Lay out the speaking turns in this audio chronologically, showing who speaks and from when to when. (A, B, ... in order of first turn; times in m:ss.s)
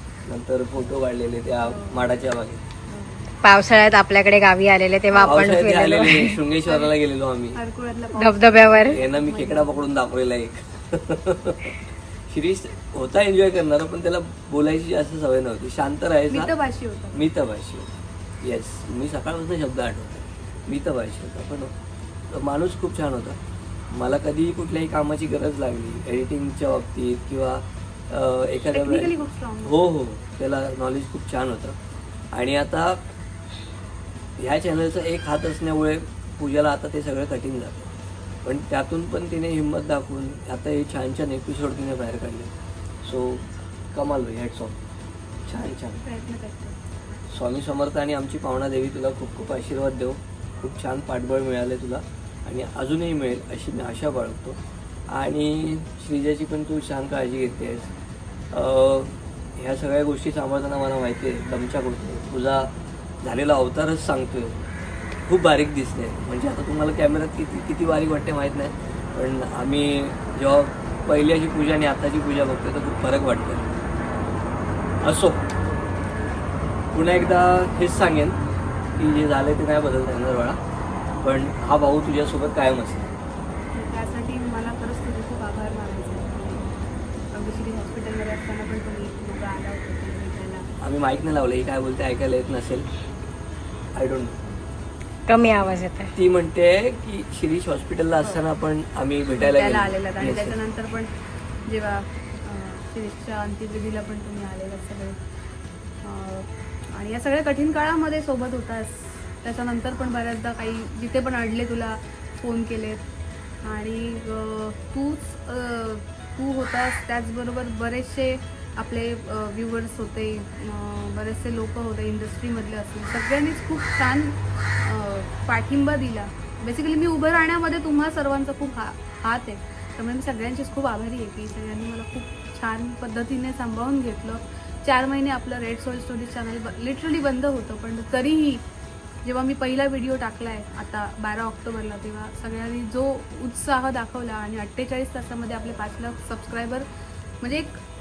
0:00.3-0:02.6 A
0:01.6-0:02.1 B
0:02.9-0:03.3 B
0:03.4-0:06.4 C
0:05.1-0:05.5 B
0:05.2-0:07.6 A
0:06.6-0:06.9 B
0:07.5-0:09.8 B
0:08.1-0:09.0 C
0:08.9-0:11.7 A
0:12.3-0:16.5 A
0:16.3-0:17.3 B
0:17.1-0:17.9 A
0:18.4-0:21.7 A
0:22.3-0:23.4 A
0:23.9-0:29.1 A
0:28.7-0:29.8 B
0:29.6-0:31.8 A
0:32.3-0:33.0 A
0:34.4-0:37.9 A
0:38.4-0:42.5 A
0:43.0-0:44.7 A
0:45.4-0:46.0 A
0:45.9-0:46.8 B
0:47.3-0:54.6 A
0:55.1-0:57.9 A
0:58.5-1:02.7 A
1:03.2-1:04.6 A
1:05.3-1:13.7 A
1:15.0-1:15.4 A
1:16.9-1:18.4 A
1:19.0-1:20.6 A
1:21.2-1:23.1 A
1:23.7-1:26.8 B
1:27.3-1:30.7 B
1:30.8-1:32.9 A
1:33.9-1:34.4 A
1:35.3-1:36.1 C
1:36.1-1:40.6 A
1:39.4-1:41.1 B
1:41.7-1:45.2 B
1:46.0-1:53.0 B
1:53.6-2:18.6 B
2:19.2-2:26.8 B
2:27.4-2:27.8 B